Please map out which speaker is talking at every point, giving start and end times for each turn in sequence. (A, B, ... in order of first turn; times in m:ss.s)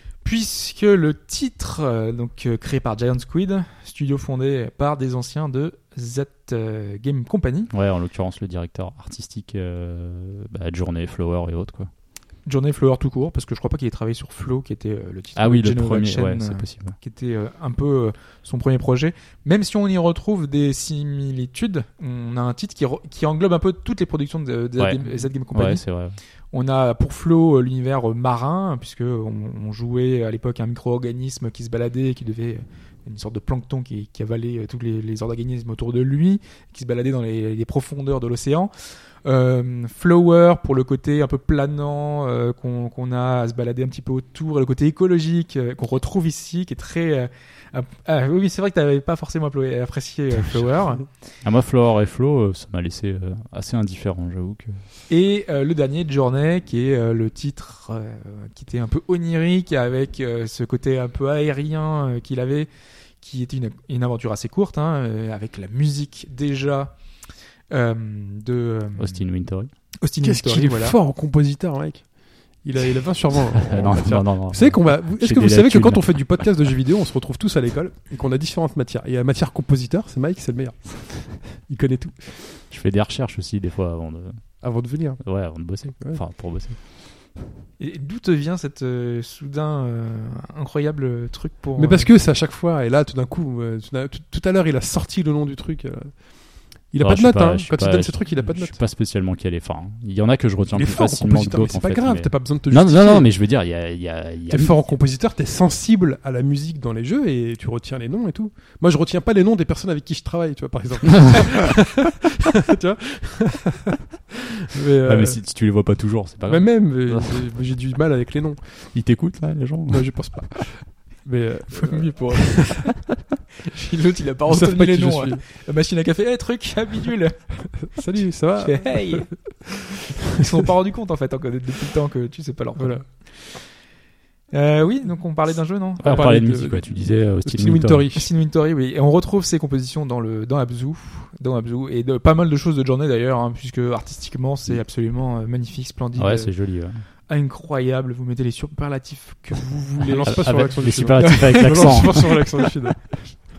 0:00.2-0:07.7 A
0:07.7-0:11.9 B
0:12.4-0:25.8 A
0:15.4-0:17.0 B
0:24.8-0:26.2 B
0:26.5-0:38.7 A
0:39.2-0:51.0 A
0:51.4-0:54.8 B
0:55.1-1:02.7 A
1:03.2-1:06.9 A
1:07.7-1:09.2 A
1:09.0-1:09.7 B
1:10.0-1:11.0 A
1:10.2-1:12.1 C
1:12.6-1:22.4 C
1:13.6-1:16.5 B
1:22.7-1:24.6 B
1:24.6-1:25.4 C
1:25.2-1:26.8 B
1:27.8-1:32.1 A
1:31.8-1:38.8 C
1:37.0-1:44.8 B
1:40.7-1:43.3 C
1:44.5-1:54.0 C
1:54.6-1:55.4 C
1:55.0-1:57.4 B
1:56.5-1:58.6 C
1:58.9-2:00.4 B
1:59.9-2:02.8 C
2:01.7-2:02.8 A
2:03.7-2:07.8 A
2:04.5-2:05.4 C
2:07.8-2:09.5 C
2:08.6-2:09.7 A
2:10.3-2:13.6 A
2:12.8-2:13.0 C
2:14.5-2:16.3 A
2:16.0-2:18.1 B
2:16.0-2:18.3 C
2:18.1-2:26.5 A
2:26.2-2:27.0 B
2:27.3-2:30.5 A
2:30.0-2:33.2 C
2:30.2-2:32.4 B
2:31.2-2:32.4 A